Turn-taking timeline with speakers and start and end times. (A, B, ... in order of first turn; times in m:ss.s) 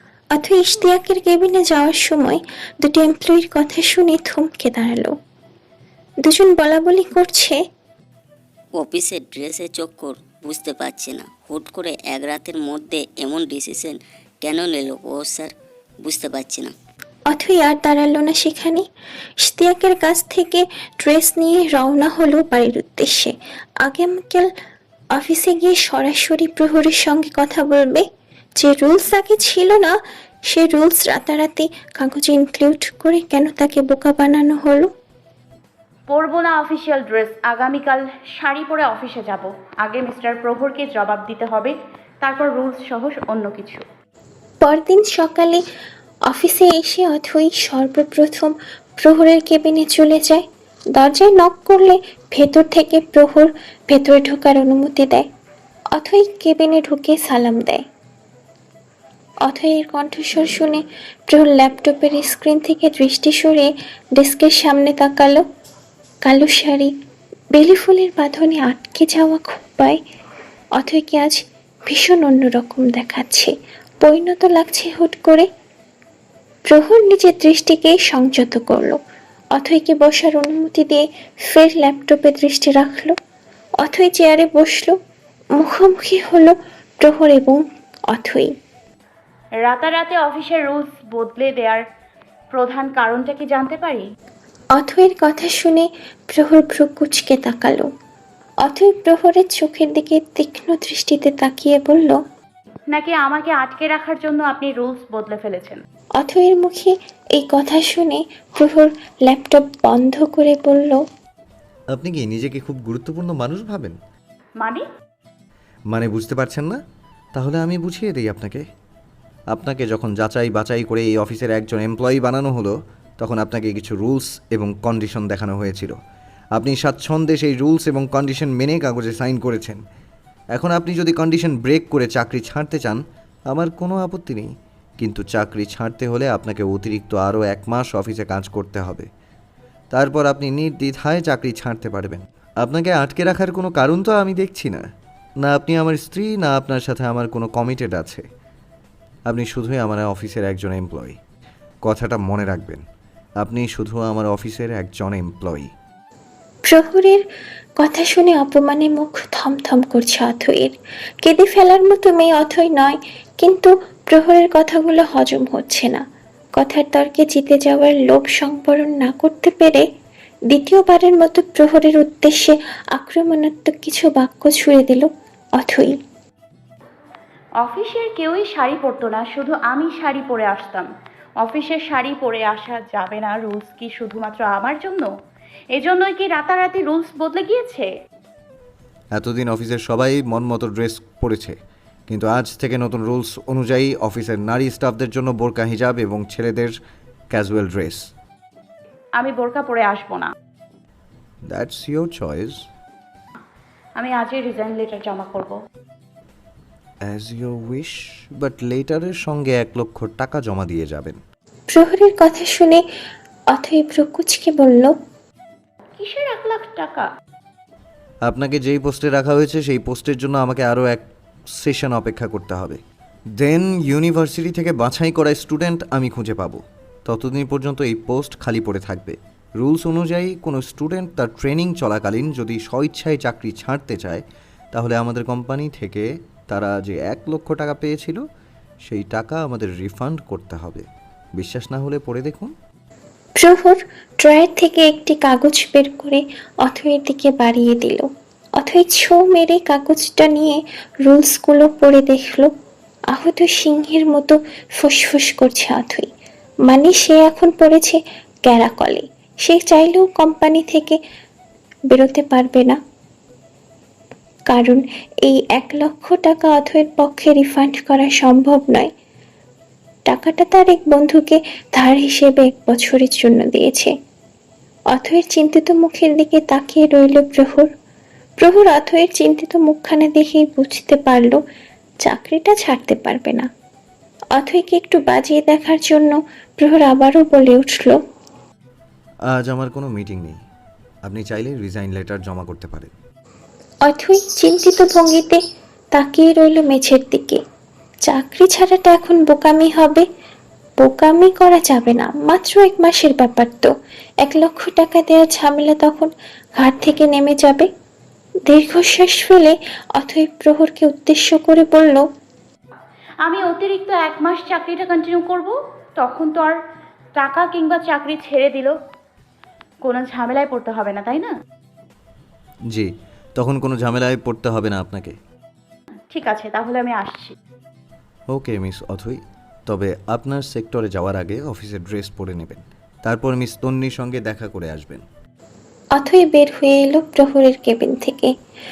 0:00.3-0:05.1 A
0:06.2-0:07.6 A
0:08.8-0:16.8 B
0:17.3-0:18.8 A
0:19.4-0:24.5 A
0:25.2-0:28.1 A
0:28.6-0:29.9 A
0:30.5-0:34.9 A
0:36.1-0:43.8 C
0:44.6-0:45.6 A
0:46.3-0:50.4 A
0:51.0-0:55.3 A
0:55.9-0:57.8 A
0:59.5-1:05.4 A
1:06.2-1:06.9 A
1:07.5-1:10.0 A
1:10.8-1:15.5 A
1:16.7-1:19.0 A
1:19.6-1:23.1 A
1:23.8-1:25.0 A
1:25.6-1:28.5 A
1:29.6-1:31.8 C
1:32.5-1:34.0 C
1:34.8-1:37.9 A
1:38.6-1:42.2 A
1:42.9-1:45.8 C
1:46.2-1:51.0 A
1:51.9-1:54.0 D
1:55.9-1:56.8 D
1:57.4-1:58.6 D
1:59.5-2:06.0 D
2:06.6-2:09.8 D
2:10.6-2:13.0 D
2:13.5-2:19.1 D
2:19.9-2:24.8 D
2:25.4-2:28.2 D
2:29.3-2:31.2 D
2:31.9-2:32.8 D
2:33.4-2:35.7 D
2:36.7-2:37.2 A
2:37.8-2:46.0 A
2:46.6-2:49.8 A
2:50.5-2:55.9 A
2:57.6-3:00.9 C
3:01.4-3:05.1 C
3:05.8-3:07.9 C
3:09.2-3:11.6 D
3:12.1-3:16.7 D
3:17.3-3:18.1 D
3:19.2-3:20.3 C
3:21.5-3:22.6 D
3:24.0-3:25.6 C
3:27.1-3:31.2 D
3:31.7-3:32.8 A
3:33.5-3:34.9 A
3:36.0-3:37.1 C
3:38.3-3:41.0 D
3:41.6-3:42.8 D
3:43.4-3:58.2 D
3:58.9-4:00.8 D
4:01.4-4:02.5 D
4:03.4-4:08.1 A
4:08.6-4:12.5 A
4:13.1-4:16.1 A
4:16.7-4:21.0 A
4:21.9-4:22.8 A
4:24.5-4:28.9 A
4:30.1-4:33.9 A
4:34.9-4:37.7 A
4:38.4-4:41.4 A
4:42.0-4:43.5 A
4:44.4-4:48.0 A
4:49.3-4:50.4 D
4:51.0-4:52.9 D
4:53.9-4:55.4 A
4:55.9-4:57.4 A
4:58.1-5:00.1 A
5:00.8-5:03.7 A
5:04.2-5:07.7 A
5:08.5-5:12.1 A
5:13.3-5:16.6 C
5:17.2-5:18.8 C
5:19.8-5:21.3 C
5:22.7-5:25.2 D
5:26.1-5:27.3 C
5:28.3-5:35.0 D
5:36.0-5:38.3 A